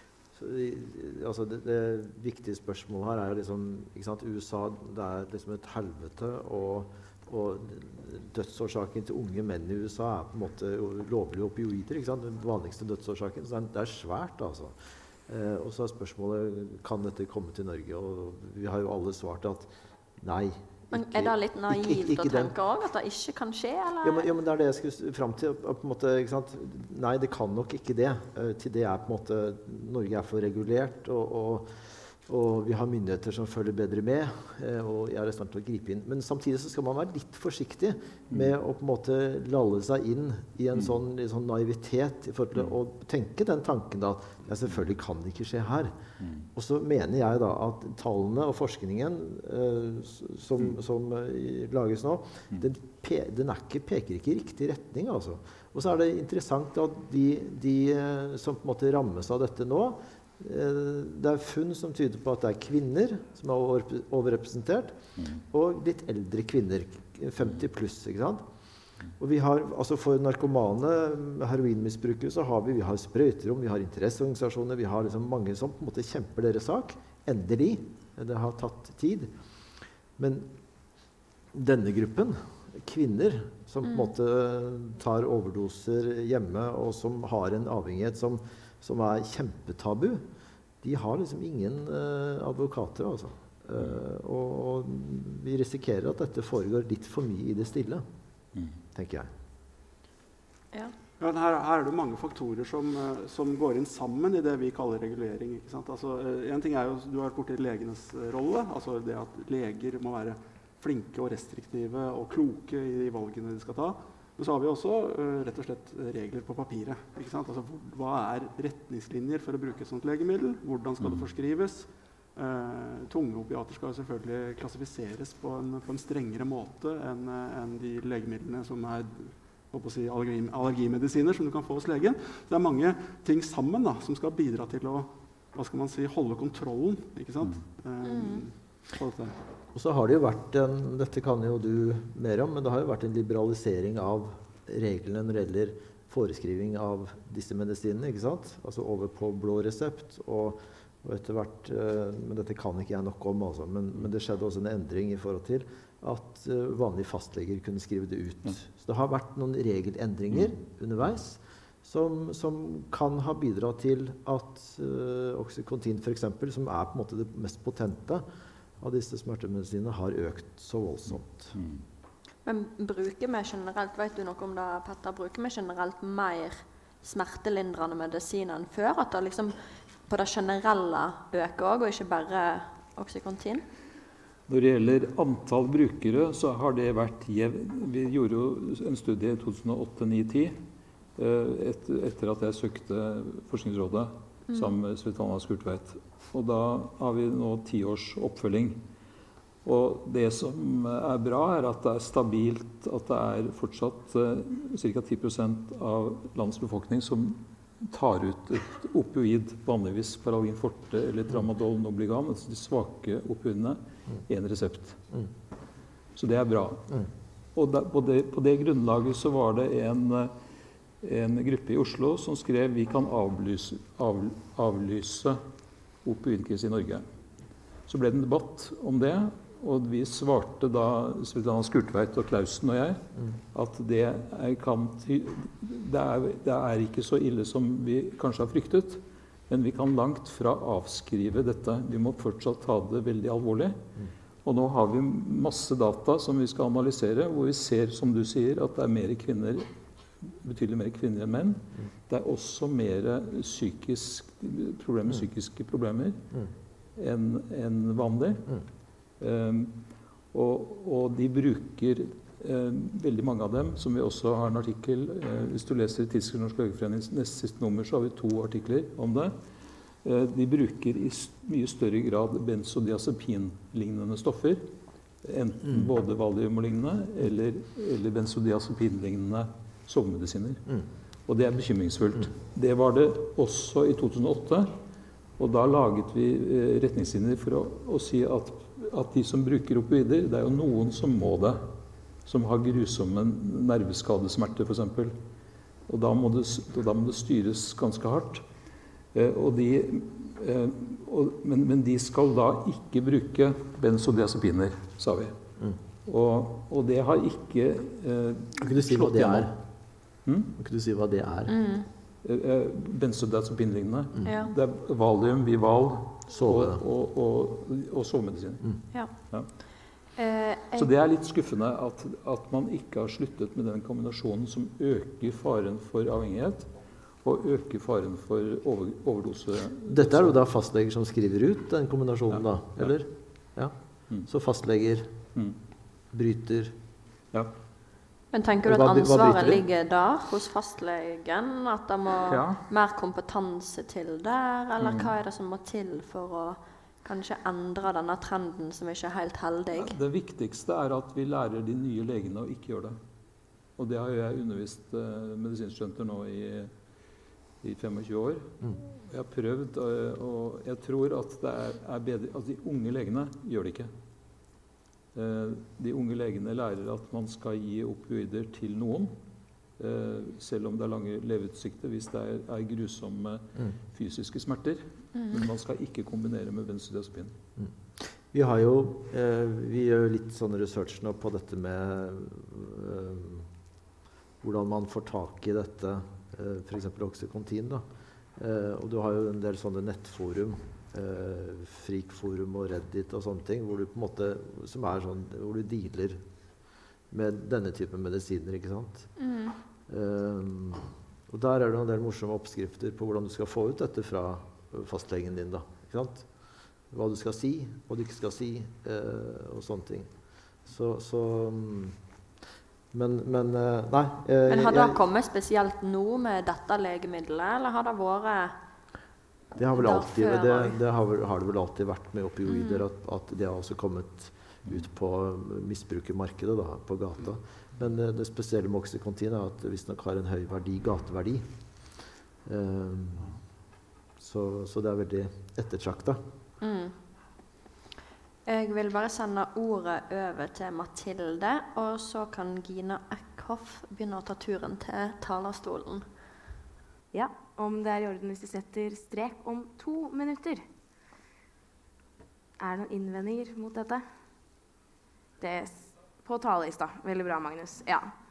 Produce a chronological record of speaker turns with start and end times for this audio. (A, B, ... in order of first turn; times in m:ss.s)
0:00.4-0:22.5 A
0:20.9-0:24.3 B
0:24.0-0:46.0 A
0:46.2-0:46.5 C
0:46.6-1:05.0 A
1:05.5-1:08.4 A
1:09.2-1:19.3 A
1:20.2-1:20.5 A
1:21.5-1:30.3 A
1:30.8-1:38.0 A
1:39.0-1:39.3 A
1:41.2-2:19.4 D
2:18.0-2:18.4 B
2:19.7-2:48.2 A
2:48.8-2:51.5 A
2:51.5-2:51.8 C
2:52.4-2:59.6 B
3:00.1-3:03.6 B
3:04.5-3:10.6 C
3:11.2-3:18.8 C
3:19.6-3:35.0 C
3:36.2-3:37.0 C
3:37.6-3:40.3 C
3:41.0-3:45.4 C
3:46.0-3:47.0 C
3:47.9-4:03.8 C
4:04.4-4:09.7 C
4:10.2-4:16.2 C
4:17.0-4:18.5 C
4:19.2-4:19.8 C
4:20.3-4:29.4 C
4:30.0-4:34.7 C
4:35.2-4:40.6 C
4:41.3-4:44.7 C
4:45.4-4:51.6 C
4:52.3-4:55.2 C
4:55.9-4:58.4 C
4:59.1-5:05.3 C
5:06.1-5:09.5 C
5:08.6-5:09.6 A
5:10.3-5:10.5 C
5:10.6-5:11.5 A
5:11.5-5:11.9 B
5:12.2-5:18.7 C
5:14.2-5:14.5 B
5:16.3-5:16.8 A
5:20.2-5:20.9 B
5:20.8-5:26.7 C
5:27.2-5:30.4 C
5:29.9-5:33.7 A
5:32.3-5:32.9 C
5:34.3-5:35.1 A
5:36.1-5:36.7 A
5:38.3-5:50.0 B
5:38.6-5:39.6 A
5:42.2-5:42.6 C
5:44.8-5:45.1 C
5:49.8-5:53.0 C
5:53.8-5:56.7 C
5:57.6-6:03.9 C
6:05.1-6:09.1 C
6:09.8-6:17.3 C
6:15.2-6:15.4 B
6:17.6-6:23.5 A
6:24.4-6:27.8 A
6:28.4-6:36.2 A
6:37.1-6:39.1 A
6:39.2-6:39.6 B
6:39.9-6:46.3 A
6:46.9-6:50.1 A
6:50.7-6:52.0 A
6:52.9-6:55.0 A
6:54.5-6:58.6 B
6:59.6-7:11.5 A
6:59.8-7:00.8 B
7:02.5-7:02.8 B
7:12.5-7:13.4 A
7:14.2-7:16.2 A
7:16.6-7:17.0 B
7:18.5-7:26.0 B
7:27.1-7:30.6 E
7:32.6-7:34.0 E
7:35.4-7:38.2 E